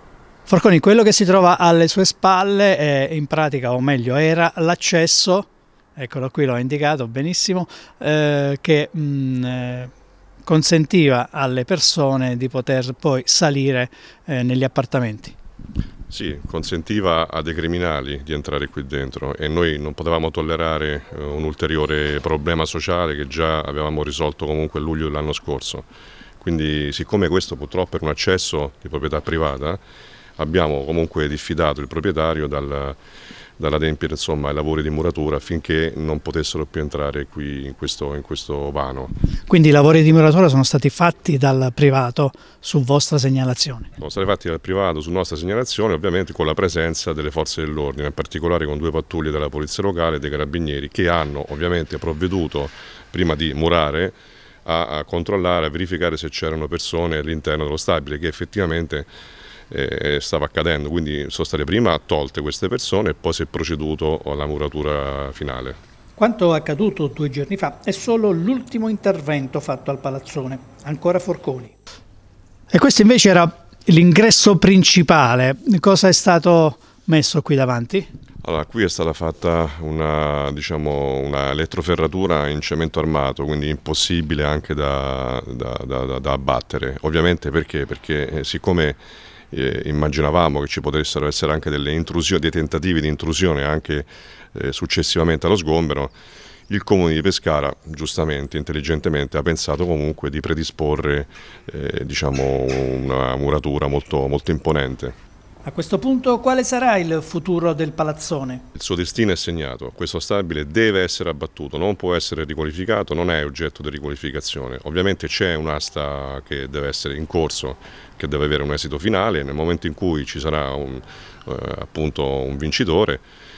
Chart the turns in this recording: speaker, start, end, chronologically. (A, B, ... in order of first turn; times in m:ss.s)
0:00.5-0:09.9 A
0:10.4-0:15.4 A
0:16.1-0:25.8 B
0:26.4-0:29.8 B
0:30.4-0:33.0 B
0:33.6-0:39.1 B
0:39.5-0:43.9 A
0:44.0-0:59.1 B
0:59.7-1:05.8 B
1:06.2-1:11.8 A
1:12.7-1:18.1 A
1:18.4-1:29.0 B
1:29.5-1:36.1 B
1:36.7-1:45.1 B
1:45.6-1:48.6 A
1:48.8-2:03.2 B